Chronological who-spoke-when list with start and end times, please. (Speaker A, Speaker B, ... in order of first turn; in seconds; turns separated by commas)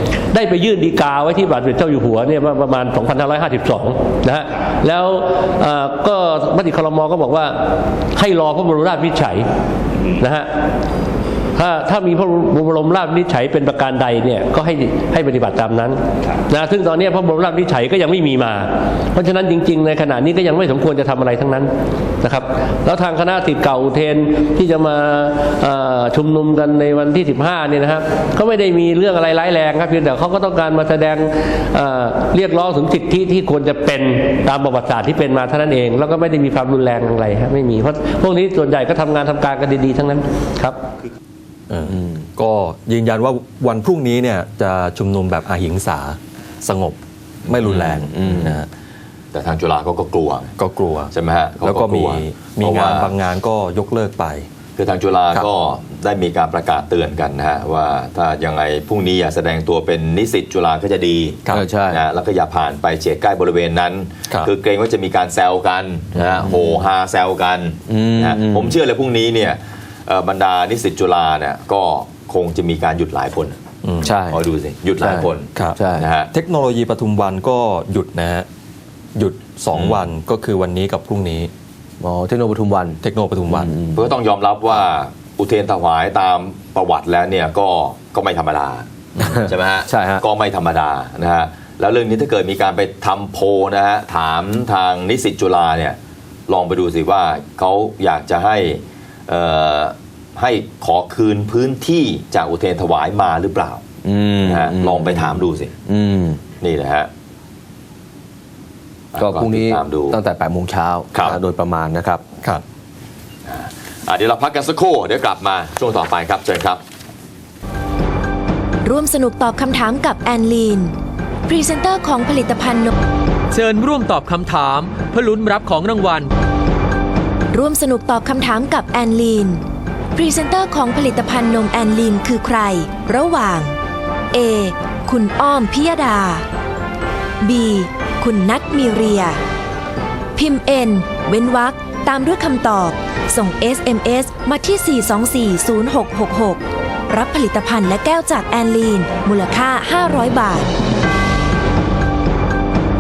Speaker A: 0.3-9.5, Speaker A: 10.2-10.5, Speaker A: 11.6-40.8, Speaker B: 41.7-48.7, Speaker C: 47.6-48.5, Speaker D: 48.1-48.5, Speaker C: 49.3-50.5, Speaker B: 50.6-54.5, Speaker C: 51.1-53.1, Speaker C: 54.8-73.6, Speaker D: 61.5-62.0, Speaker D: 67.9-68.8, Speaker B: 73.8-74.2, Speaker D: 74.0-74.4, Speaker C: 74.3-76.3, Speaker D: 75.0-76.1, Speaker B: 76.3-78.5, Speaker B: 79.2-81.5, Speaker D: 82.0-84.1, Speaker B: 83.0-83.7, Speaker C: 84.0-96.0, Speaker D: 89.2-90.2, Speaker C: 96.5-103.8, Speaker D: 104.0-106.4, Speaker C: 104.5-105.7, Speaker C: 106.6-107.1, Speaker C: 109.1-110.2, Speaker D: 109.2-112.2, Speaker C: 113.5-116.8, Speaker E: 118.8-120.9, Speaker E: 121.5-122.9, Speaker F: 123.5-126.3, Speaker E: 127.5-129.6, Speaker E: 130.2-133.8, Speaker E: 134.3-136.4, Speaker E: 137.4-139.4, Speaker E: 140.3-150.7